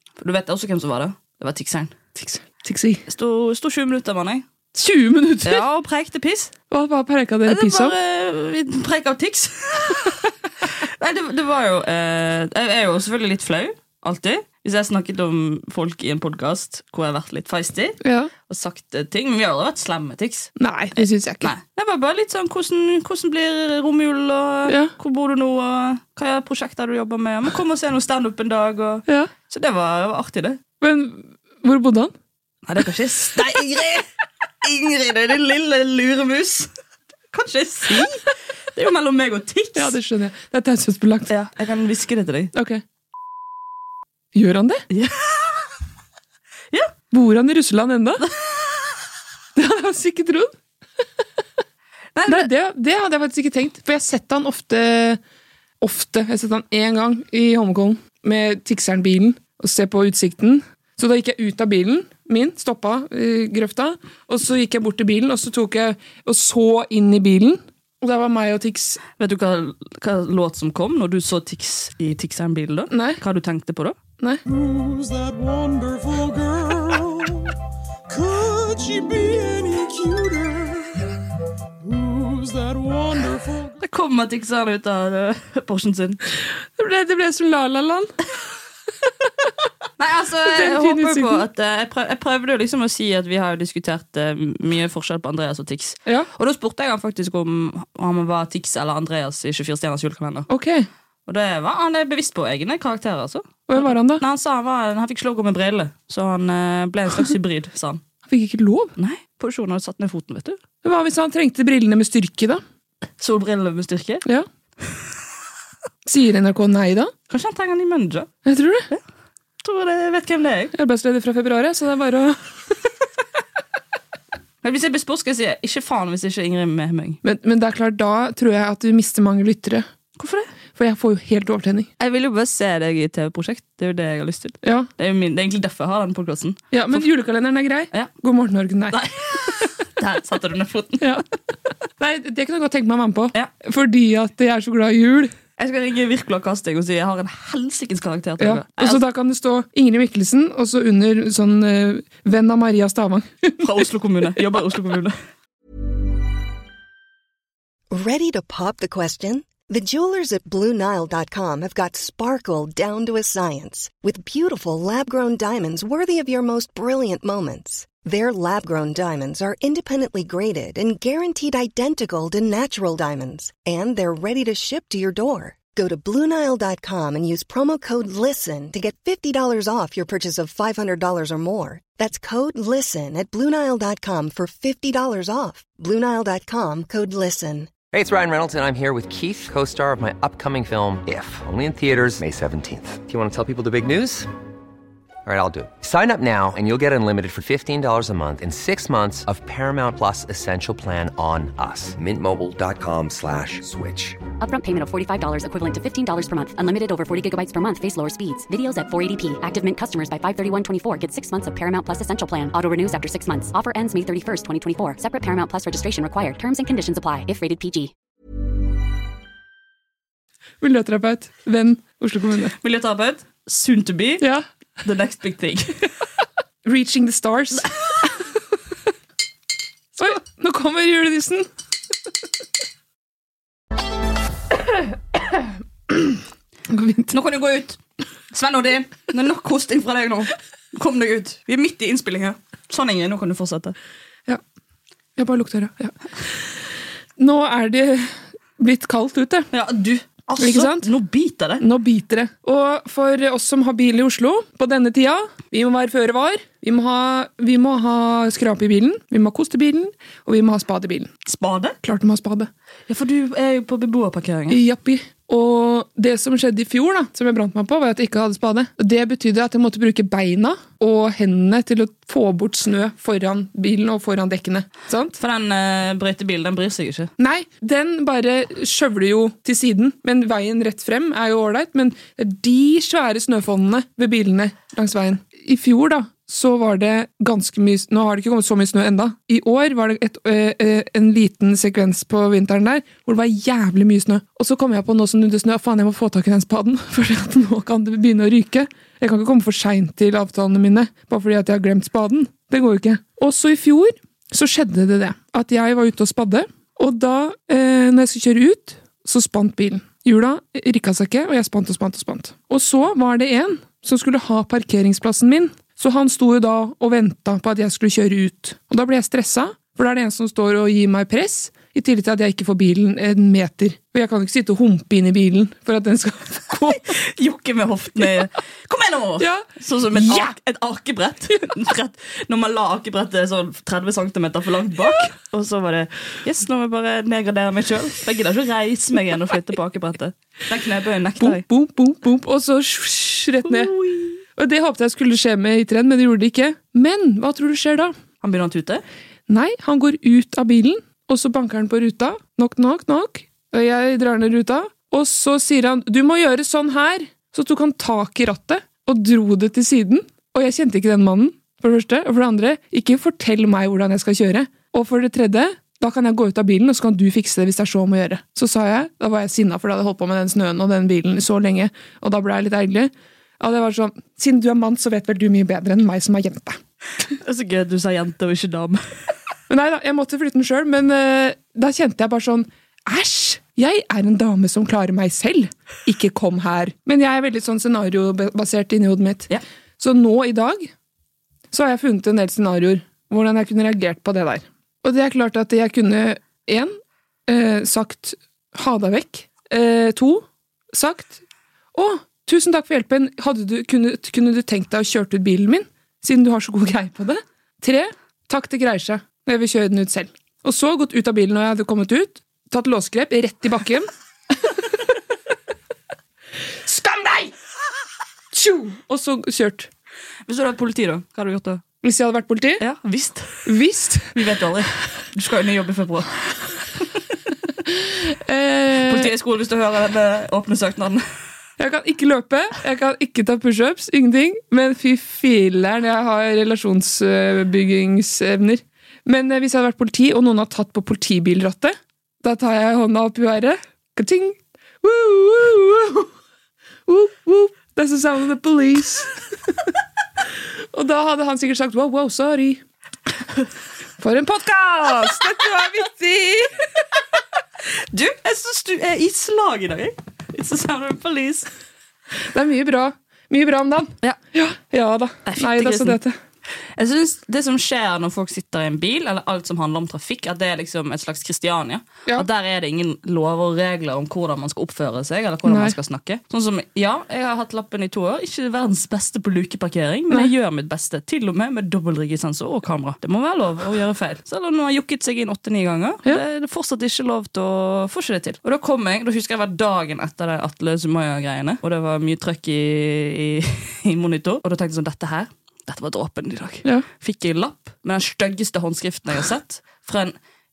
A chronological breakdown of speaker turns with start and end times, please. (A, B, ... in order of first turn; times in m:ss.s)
0:00.2-0:02.1 A
0:02.2-0:03.0 B
0:03.1-0:04.5 A
0:04.8-0:05.6 B
0:05.4-0:06.5 A
0:06.7-0:08.0 B
0:07.5-0:30.6 A
0:18.0-0:18.3 B
0:20.6-0:21.5 B
0:24.7-0:24.9 B
0:30.8-0:32.1 B
0:32.7-0:34.1 A
0:34.6-0:36.7 A
0:37.3-0:40.0 A
0:39.8-0:41.3 B
0:41.3-0:42.5 A
0:42.6-0:42.8 B
0:44.3-0:44.8 B
0:44.9-0:45.7 A
0:47.1-0:48.3 B
0:49.6-0:50.5 B
0:52.2-0:52.5 A
0:52.3-0:55.2 B
0:55.8-1:09.0 B
1:09.2-1:14.0 A
1:12.9-1:13.2 B
1:14.5-1:17.5 C
1:18.1-1:21.0 C
1:21.8-1:23.8 C
1:23.8-1:26.2 A
1:26.8-1:28.1 B
1:30.0-1:40.5 A
1:30.5-1:31.5 B
1:40.5-1:40.9 B
1:41.3-1:48.0 A
1:43.7-1:44.2 B
1:48.3-1:48.9 B
1:49.0-1:50.6 A
1:50.8-1:52.6 B
1:53.2-1:54.2 A
1:56.1-1:57.1 B
1:57.3-1:58.3 A
1:58.4-1:58.9 B
1:59.6-2:00.7 A
2:00.8-2:02.4 B
2:04.6-2:07.2 A
2:07.2-2:09.9 B
2:10.2-2:10.5 A
2:10.8-2:11.9 B
2:12.0-2:17.1 A
2:14.6-2:14.9 B
2:16.7-2:19.0 B
2:18.9-2:21.2 A
2:22.0-2:25.3 B
2:25.6-2:29.0 A
2:28.4-2:33.7 B
2:33.6-2:35.2 A
2:37.9-3:07.7 D
3:07.9-3:14.3 E
3:15.3-3:24.2 E
3:24.4-3:37.9 F
3:40.6-3:42.6 B
3:42.6-3:44.2 A
3:44.8-3:45.8 A
3:46.6-3:48.1 B
3:50.0-3:51.5 B
3:56.7-3:57.1 B
3:57.1-3:57.8 A
3:58.3-4:03.8 A
4:05.2-4:05.9 B
4:07.2-4:09.5 B
4:09.5-4:11.6 A
4:10.4-4:10.9 B
4:11.6-4:21.1 B
4:21.2-4:21.8 A
4:21.8-4:22.5 B
4:22.9-4:24.6 A
4:24.5-4:35.2 B
4:35.2-4:37.1 A
4:37.2-5:26.9 B
5:26.9-5:41.4 A
5:29.2-5:30.3 B
5:41.2-5:43.7 B
5:43.4-5:44.2 A
5:44.4-5:47.9 B
5:48.2-5:48.8 A
5:49.3-6:16.6 B
6:17.2-6:18.8 A
6:19.5-6:30.7 B
6:31.5-6:36.7 B
6:37.3-6:41.2 B
6:41.7-6:53.9 B
6:56.7-6:57.3 B
6:58.3-6:59.7 B
7:00.3-7:01.6 A
7:01.8-7:02.6 B
7:02.6-7:03.5 A
7:03.4-7:04.2 B
7:04.1-7:07.0 A
7:07.7-7:09.1 B
7:08.8-7:11.0 A
7:11.6-7:26.1 B
7:26.9-7:29.2 B
7:30.7-7:32.6 B
7:34.0-7:36.7 B
7:37.8-7:41.5 A
7:42.3-7:46.2 B
7:45.3-7:46.0 A
7:46.8-8:20.2 A
7:55.5-7:55.8 B